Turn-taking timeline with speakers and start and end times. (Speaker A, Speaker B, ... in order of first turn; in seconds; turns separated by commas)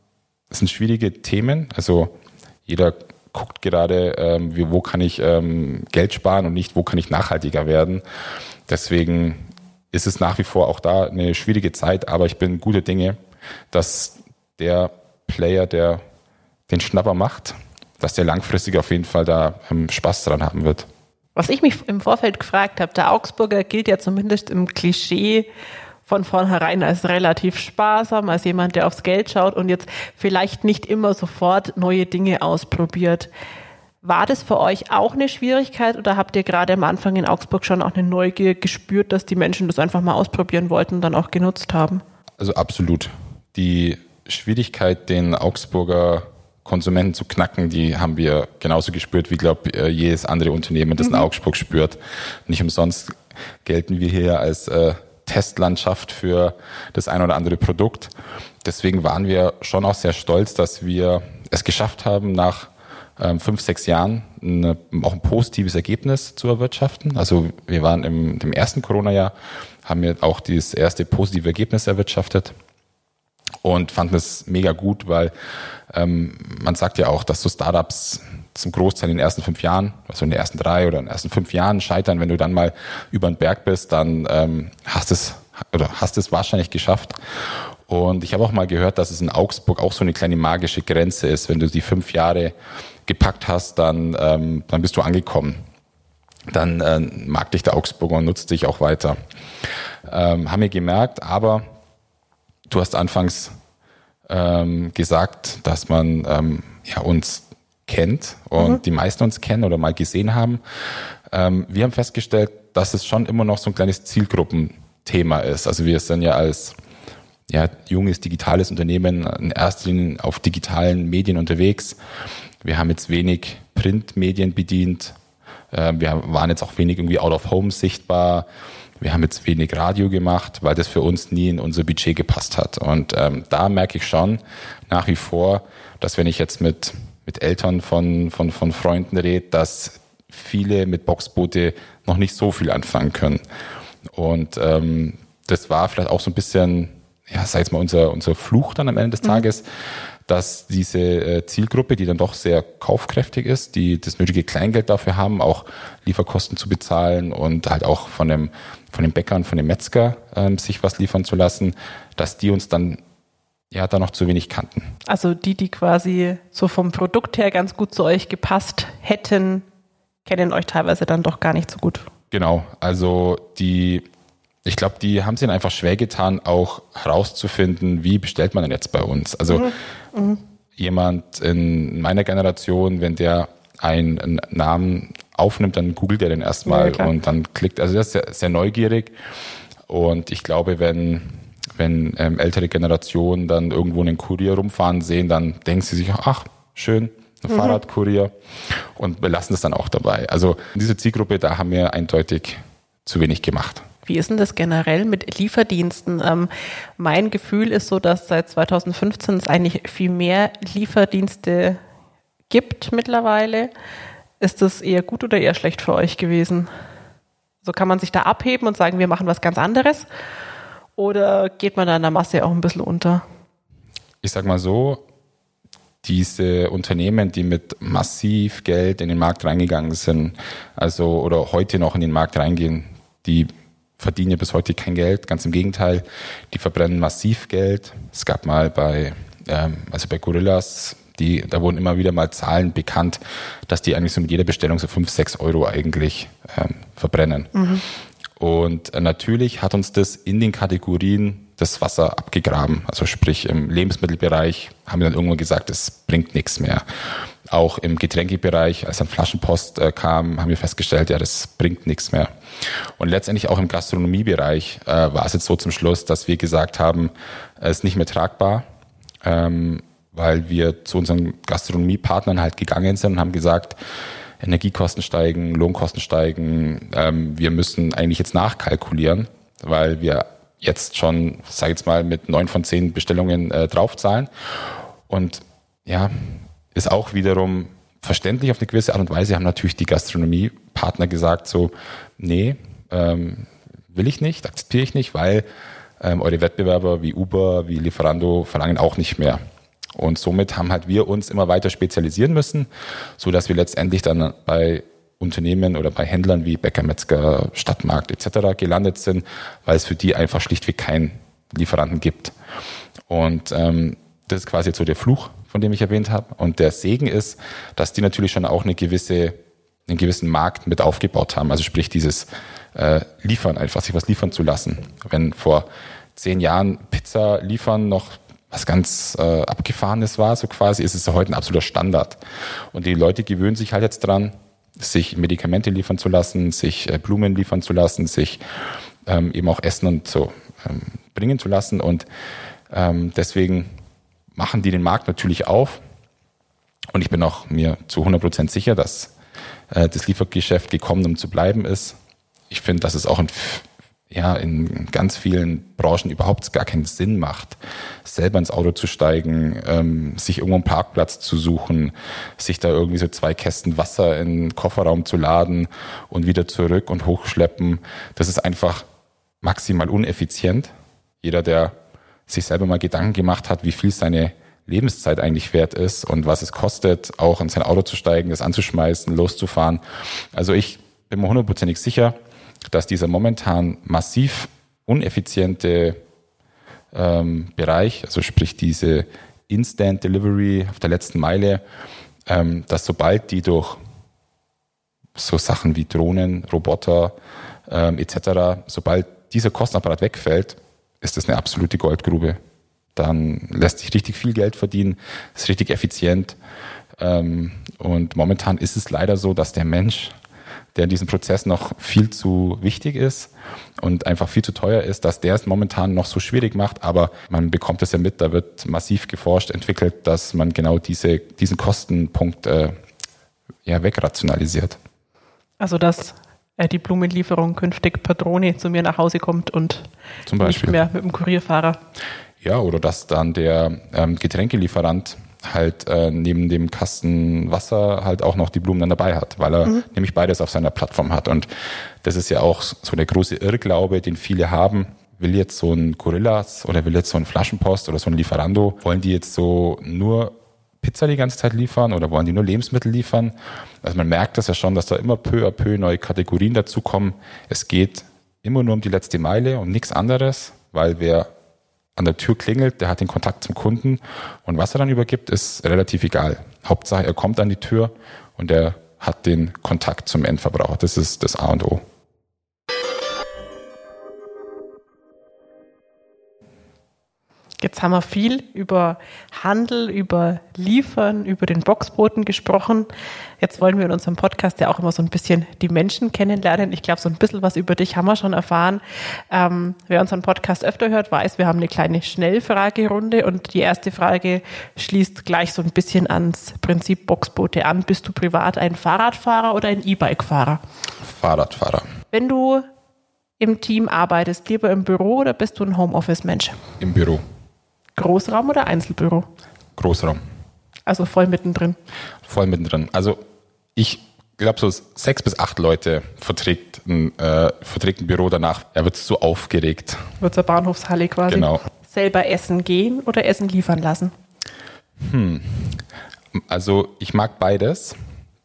Speaker A: 0.5-2.1, Speaker A: 2.6-8.0, Speaker A: 8.7-13.2, Speaker A: 13.7-16.0, Speaker A: 16.7-20.9, Speaker B: 21.4-25.5, Speaker B: 26.0-33.3, Speaker B: 34.0-42.0, Speaker A: 42.4-58.1, Speaker A: 58.6-72.5, Speaker A: 73.6-75.3, Speaker A: 75.9-87.2, Speaker A: 87.9-92.5, Speaker A: 93.0-95.6, Speaker A: 96.5-99.2, Speaker A: 100.1-101.6, Speaker A: 102.7-103.5, Speaker A: 104.3-110.6, Speaker A: 111.3-116.8, Speaker A: 117.5-122.0, Speaker A: 122.6-125.2, Speaker A: 125.7-128.4, Speaker A: 129.0-143.4, Speaker A: 144.1-149.6, Speaker A: 150.3-163.0, Speaker A: 163.7-164.9, Speaker B: 165.1-169.7, Speaker B: 170.2-172.1, Speaker A: 172.3-174.1, Speaker A: 174.6-179.7, Speaker B: 179.5-180.4, Speaker A: 180.8-189.1, Speaker B: 186.7-187.1, Speaker A: 189.9-203.8, Speaker B: 197.5-197.8, Speaker B: 204.1-211.8, Speaker B: 212.5-213.7, Speaker B: 214.4-216.7, Speaker B: 217.6-220.1, Speaker B: 221.0-223.2, Speaker A: 224.2-225.0, Speaker A: 226.0-247.5, Speaker B: 247.5-247.8, Speaker A: 248.4-256.8, Speaker A: 257.5-262.3, Speaker A: 263.0-268.6, Speaker A: 269.2-273.8, Speaker A: 274.4-284.3, Speaker A: 285.1-295.4, Speaker A: 296.0-299.4, Speaker A: 299.9-312.3, Speaker A: 313.1-332.2, Speaker A: 332.7-338.4, Speaker A: 339.1-342.1, Speaker A: 342.7-343.7, Speaker A: 344.3-345.8, Speaker A: 346.9-349.1, Speaker A: 349.7-352.0, Speaker A: 352.5-368.9, Speaker A: 369.4-371.7, Speaker A: 372.3-379.8, Speaker A: 380.3-382.1, Speaker A: 382.7-386.0, Speaker A: 386.9-391.6, Speaker A: 392.3-393.8, Speaker A: 395.1-397.1, Speaker A: 397.7-402.4, Speaker A: 402.9-406.4, Speaker A: 407.0-410.1, Speaker A: 410.7-422.7, Speaker A: 423.6-424.8, Speaker B: 425.6-429.9, Speaker A: 430.3-430.8, Speaker B: 430.4-431.8, Speaker A: 432.4-441.5, Speaker A: 442.0-461.3, Speaker A: 461.9-471.8, Speaker B: 477.6-482.9, Speaker B: 483.4-500.6, Speaker A: 501.0-501.9, Speaker B: 502.1-502.6, Speaker B: 503.4-506.6, Speaker A: 506.8-507.2, Speaker B: 507.9-509.3, Speaker A: 509.8-510.2, Speaker B: 510.9-511.8, Speaker A: 512.2-513.2, Speaker A: 513.8-520.1, Speaker B: 520.2-524.1, Speaker A: 521.3-521.6, Speaker A: 525.0-528.0